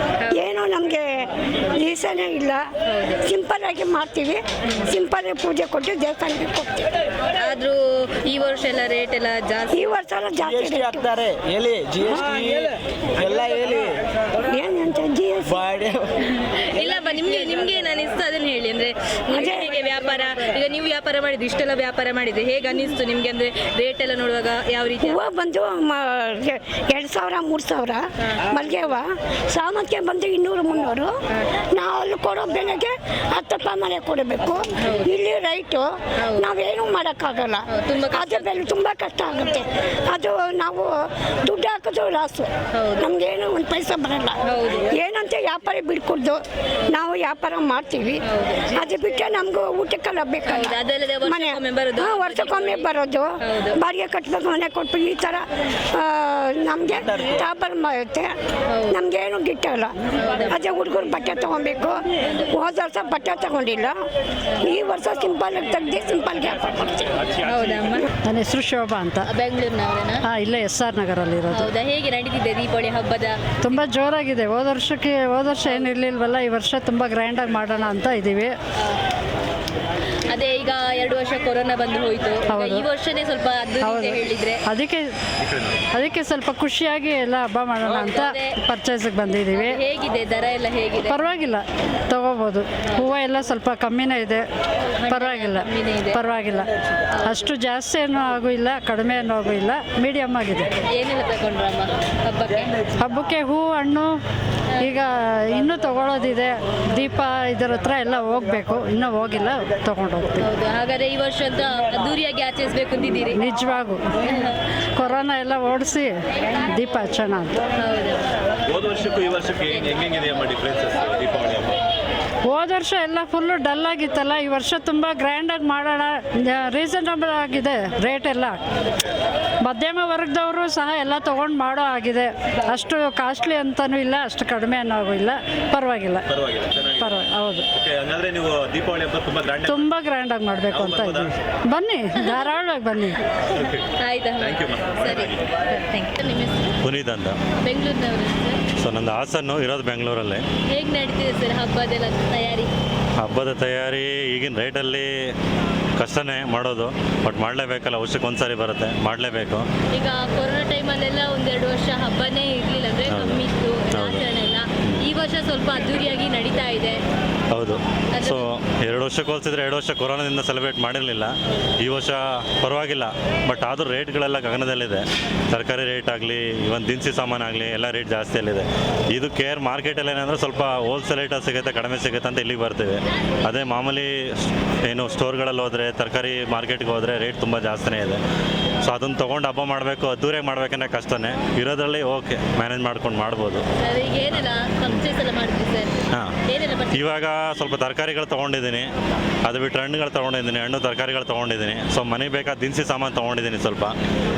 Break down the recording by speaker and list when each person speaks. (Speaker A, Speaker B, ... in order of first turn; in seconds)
Speaker A: 0.4-2.6, 3.2-6.9, 9.7-11.0, 14.5-15.6, 19.3-19.7, 25.0-31.1, 31.7-40.9, 41.5-42.5, 43.0-44.4, 44.9-48.2, 48.7-58.3, 58.9-60.0, 60.5-64.0, 64.6-67.2
Speaker B: 2.9-3.2, 7.4-9.9, 16.5-25.2, 34.8-35.1, 36.2-36.5, 37.7-38.5, 42.7-43.1, 44.4-44.9, 48.2-48.8, 50.5-52.9, 53.4-53.8, 58.7-59.0, 60.1-60.6, 67.4-68.1, 69.3-70.2, 71.5-73.4, 80.3-84.6, 87.8-88.6, 89.5-91.2, 95.0-96.2, 100.8-102.8, 110.4-113.4, 117.8-118.3, 144.0-146.8, 147.6-148.6, 150.7-152.7, 159.9-167.0, 168.1-168.4, 193.8-195.9, 196.5-197.2
Speaker C: 10.4-14.0, 15.5-16.1
Speaker D: 68.3-69.3, 70.2-71.7, 73.6-78.6, 82.5-82.8, 83.8-85.1, 85.9-89.8, 91.1-94.5, 95.1-96.7, 97.3-100.7, 103.0-104.2, 104.8-110.4, 113.3-114.0, 115.0-117.6, 122.5-128.6, 129.7-136.2, 137.0-137.7, 139.7-143.2
Speaker E: 85.4-85.8, 118.7-121.8, 136.3-137.2, 137.7-139.9, 140.7-141.3, 143.5-143.8, 144.4-145.5
Speaker F: 146.8-147.4, 148.8-150.4, 153.2-155.3, 156.0-159.7, 163.1-164.2, 167.5-188.2, 188.9-193.6, 196.9-198.9, 199.5-203.9